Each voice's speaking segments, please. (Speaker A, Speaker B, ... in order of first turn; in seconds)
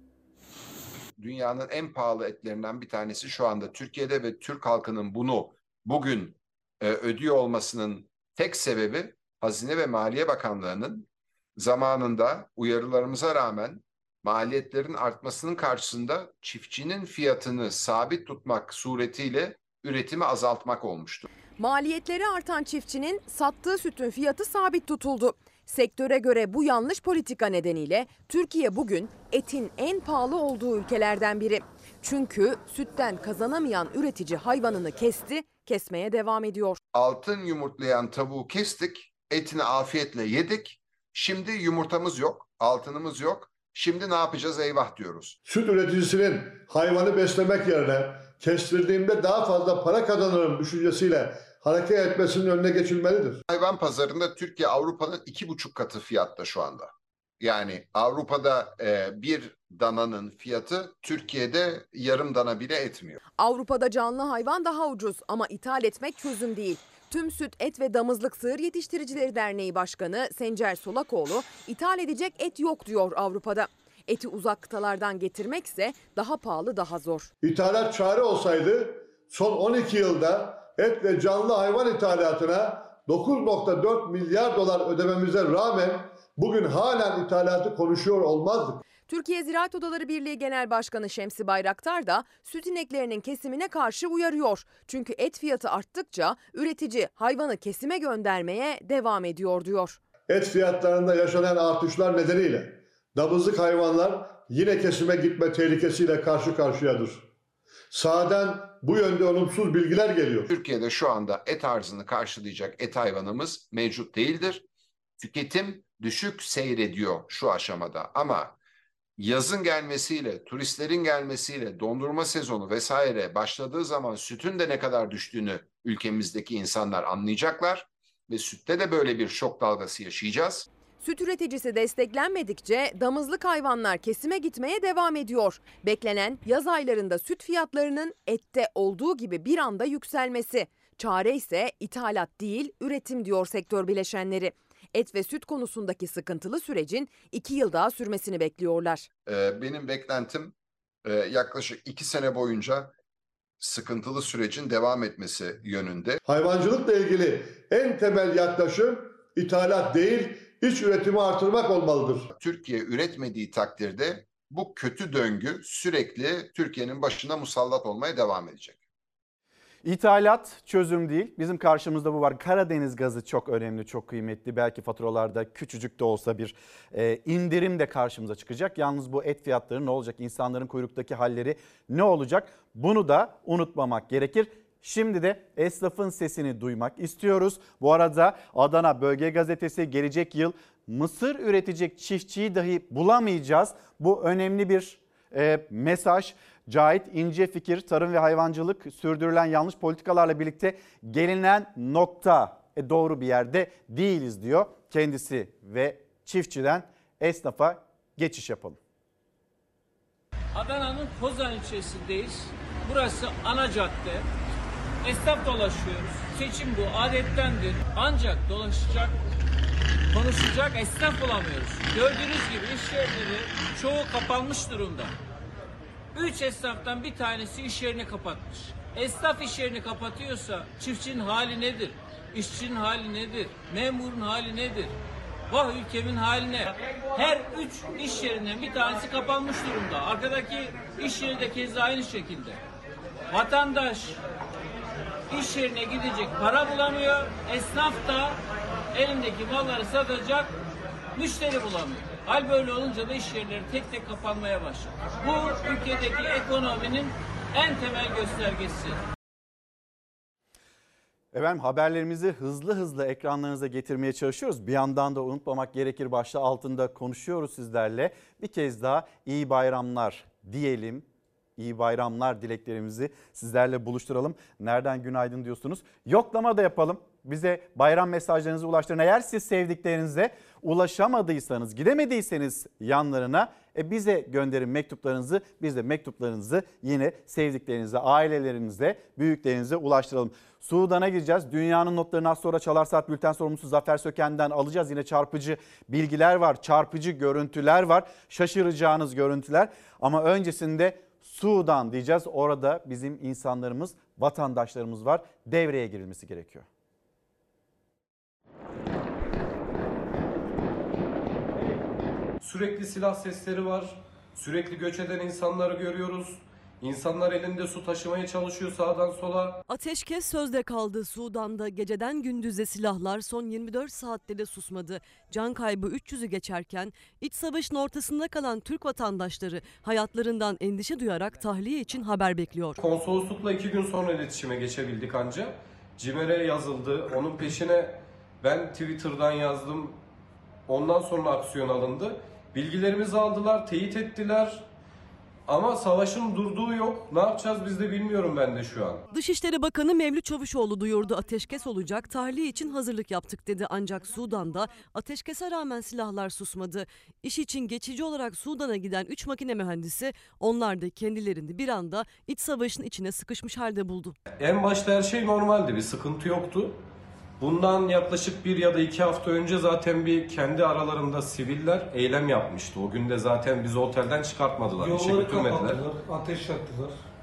Speaker A: 1.2-21.2, 36.9-45.4, 53.5-63.2, 110.5-114.6, 115.2-118.5, 119.2-130.7, 149.3-152.9, 153.6-156.2, 162.4-168.8
Speaker B: 21.6-36.8, 63.4-77.3, 89.1-100.0, 131.0-149.1
Speaker C: 45.4-53.4, 77.4-88.8, 100.3-107.2, 107.9-110.5, 156.2-162.3
Speaker D: 169.8-208.8, 261.3-271.0, 271.6-306.6
Speaker E: 210.5-214.2, 215.0-219.2, 220.1-225.1, 226.1-235.0, 235.5-242.6, 243.3-244.2, 245.3-248.4, 248.9-250.5, 251.1-259.0
Speaker F: 312.4-319.6, 332.8-340.0, 340.7-344.7, 345.5-349.1, 364.3-366.8, 367.4-376.0
Speaker G: 319.7-332.8, 349.1-364.1
Speaker H: 374.8-376.9